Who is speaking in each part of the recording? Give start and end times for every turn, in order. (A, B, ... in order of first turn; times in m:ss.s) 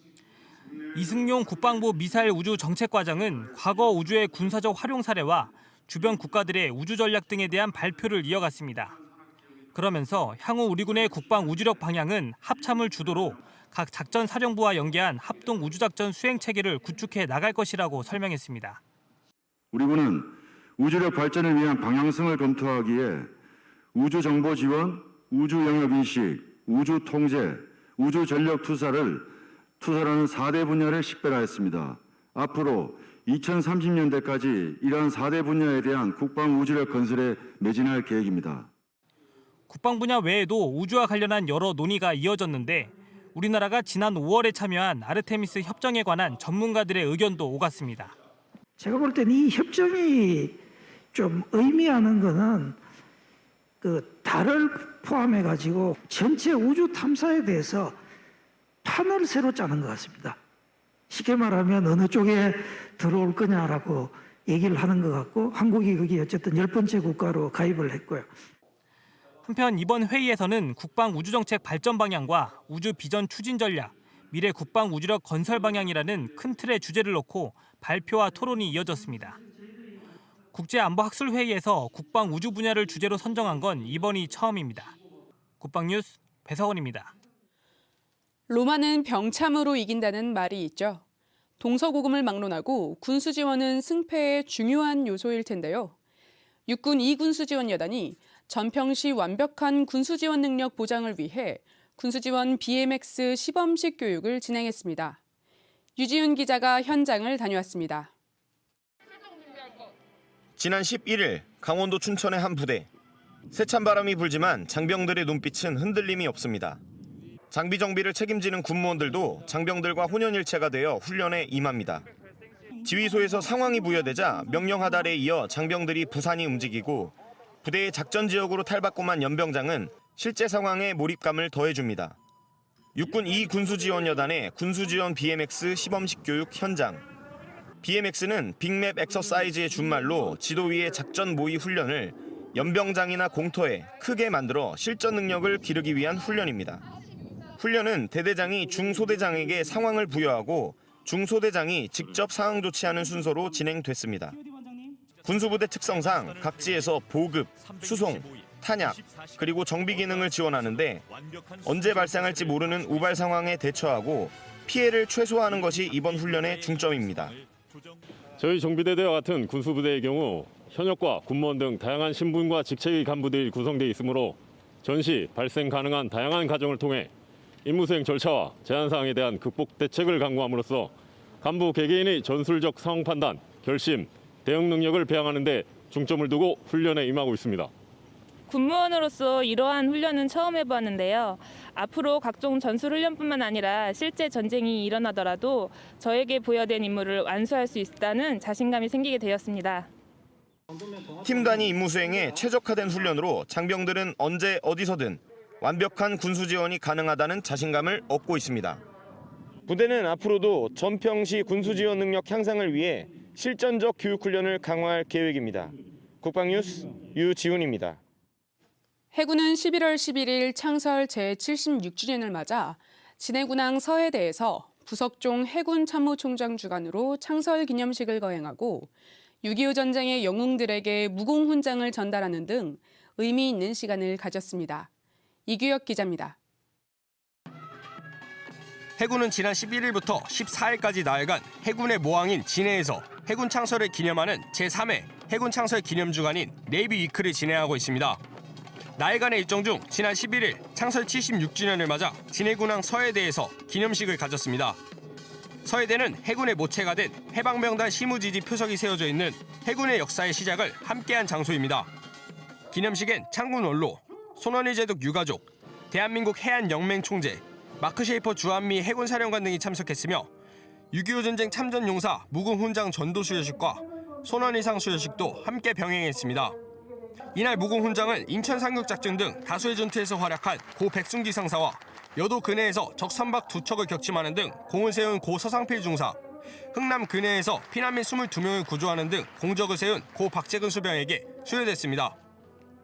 0:00.9-0:08.9 A
0:09.7-0:18.8 A
0:19.7-0:23.3 B
0:23.9-0:29.3 B
0:29.8-0:38.7 B
0:39.7-0:48.1 A
0:48.8-0:50.6 C
0:51.1-0:52.8 C
0:53.8-0:58.0 C
0:58.8-1:00.4 C
1:01.1-1:08.3 C
1:09.4-1:19.4 A
1:20.5-1:24.9 A
1:25.6-1:27.1 A
1:28.5-1:31.0 D
1:31.6-1:35.9 D
1:36.7-1:45.2 D
1:46.0-1:48.1 D
1:50.6-1:52.9 E
1:53.5-1:56.8 E
1:57.5-2:02.0 E
2:02.8-2:12.2 E
2:12.9-2:17.0 E
2:17.8-2:26.8 E
2:27.6-2:34.4 E
2:35.2-2:41.1 E
2:41.6-2:47.3 E
2:48.4-2:57.1 F
2:57.6-3:07.7 F
3:08.5-3:19.9 G
3:21.2-3:28.8 E
3:29.7-3:38.0 E
3:39.1-3:48.9 D
3:49.4-3:54.9 D
3:55.4-3:56.4 D
3:59.0-4:08.2 H
4:09.0-4:14.8 H
4:15.6-4:21.9 H
4:22.7-4:30.3 H
4:30.9-4:36.6 H
4:37.3-4:46.2 H
4:46.7-4:52.2 H